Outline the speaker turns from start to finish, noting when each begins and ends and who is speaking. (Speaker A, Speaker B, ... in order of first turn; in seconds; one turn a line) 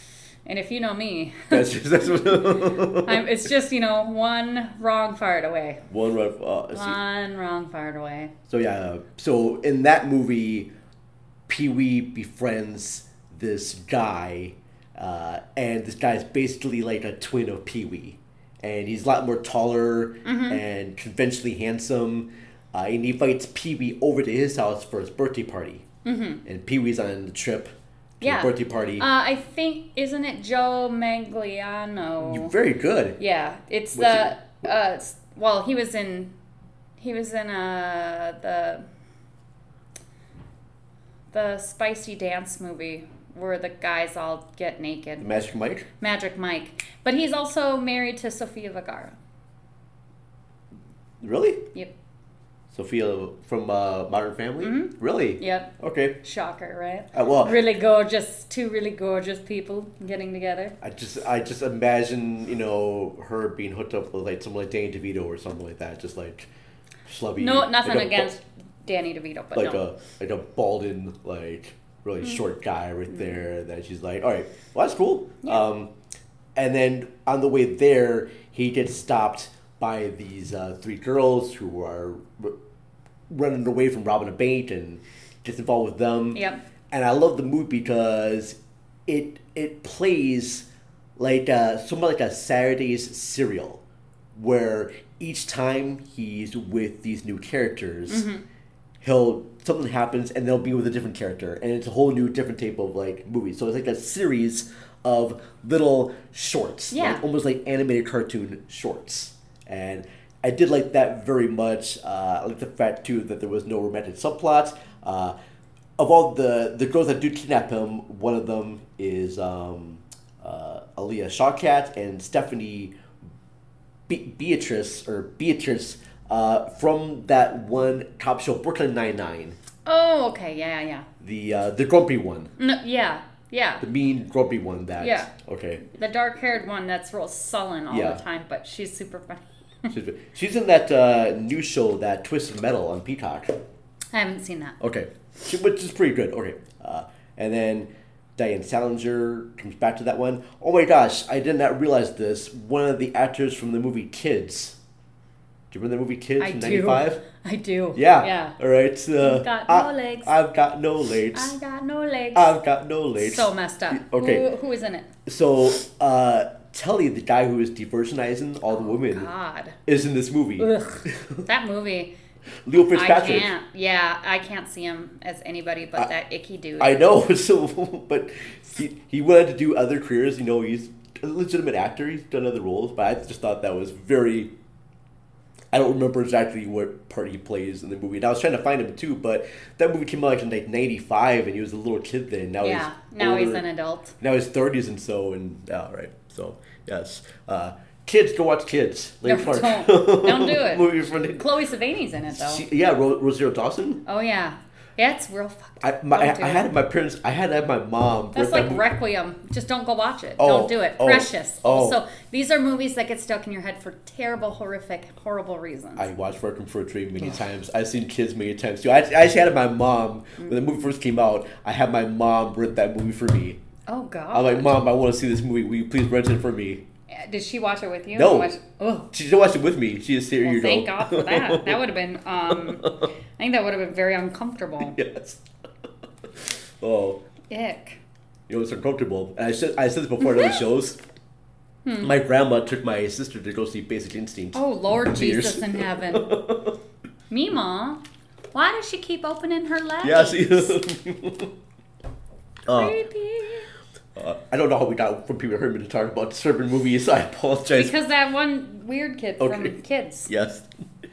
Speaker A: 0.5-5.8
Speaker B: 1.5-3.2
Speaker B: 5.9-7.0
Speaker A: 6.7-8.3
Speaker B: 8.5-10.7
Speaker B: 11.5-25.9
Speaker A: 20.2-20.6
Speaker A: 26.1-26.4
Speaker B: 26.4-29.1
Speaker A: 28.2-32.5
Speaker B: 32.2-33.2
Speaker A: 33.2-36.3
Speaker B: 33.9-34.7
Speaker A: 37.0-38.9
Speaker A: 41.3-45.3
Speaker B: 45.2-45.9
Speaker A: 46.0-49.2
Speaker B: 51.2-51.7
Speaker B: 52.7-56.2
Speaker A: 54.6-60.8
Speaker B: 57.1-57.6
Speaker B: 60.8-66.5
Speaker B: 67.1-68.4
Speaker A: 67.4-69.8
Speaker B: 69.5-75.9
Speaker A: 73.1-73.4
Speaker B: 76.6-82.5
Speaker B: 83.3-93.8
Speaker A: 86.3-86.6
Speaker B: 94.3-98.3
Speaker A: 98.1-98.4
Speaker B: 99.0-115.3
Speaker A: 106.9-107.2
Speaker B: 116.0-122.9
Speaker B: 124.1-129.6
Speaker A: 129.8-131.1
Speaker B: 131.2-132.5
Speaker A: 132.6-133.8
Speaker B: 133.8-135.9
Speaker A: 135.0-135.3
Speaker A: 135.9-139.9
Speaker B: 137.9-138.2
Speaker B: 139.9-143.6
Speaker A: 144.1-144.8
Speaker B: 144.8-154.8
Speaker B: 155.7-157.2
Speaker A: 156.4-158.6
Speaker B: 157.9-161.5
Speaker A: 159.2-160.3
Speaker A: 161.3-162.5
Speaker B: 162.3-164.5
Speaker A: 163.2-165.1
Speaker B: 165.3-169.3
Speaker A: 168.7-169.8
Speaker B: 169.9-171.4
Speaker A: 170.6-172.1
Speaker B: 172.7-173.5
Speaker A: 172.9-177.0
Speaker B: 176.8-184.5
Speaker B: 185.7-193.6
Speaker A: 192.6-194.2
Speaker B: 194.2-201.5
Speaker A: 199.2-202.6
Speaker B: 202.3-204.0
Speaker A: 204.1-206.7
Speaker B: 205.8-208.9
Speaker A: 208.3-216.1
Speaker B: 210.4-212.0
Speaker B: 216.0-223.6
Speaker A: 223.9-224.8
Speaker B: 224.3-226.8
Speaker A: 227.1-229.1
Speaker B: 228.1-228.5
Speaker B: 229.1-231.8
Speaker A: 230.4-235.0
Speaker B: 232.5-233.1
Speaker B: 234.8-235.4
Speaker B: 236.8-237.2
Speaker A: 237.5-238.0
Speaker B: 238.5-241.0
Speaker A: 240.2-240.6
Speaker A: 241.8-242.2
Speaker B: 242.0-246.8
Speaker A: 244.5-246.3
Speaker A: 247.3-248.0
Speaker A: 248.5-250.8
Speaker B: 250.0-251.5
Speaker B: 252.7-253.0
Speaker A: 252.7-253.7
Speaker B: 254.2-258.0
Speaker A: 257.8-260.3
Speaker B: 259.4-259.8
Speaker B: 260.3-260.7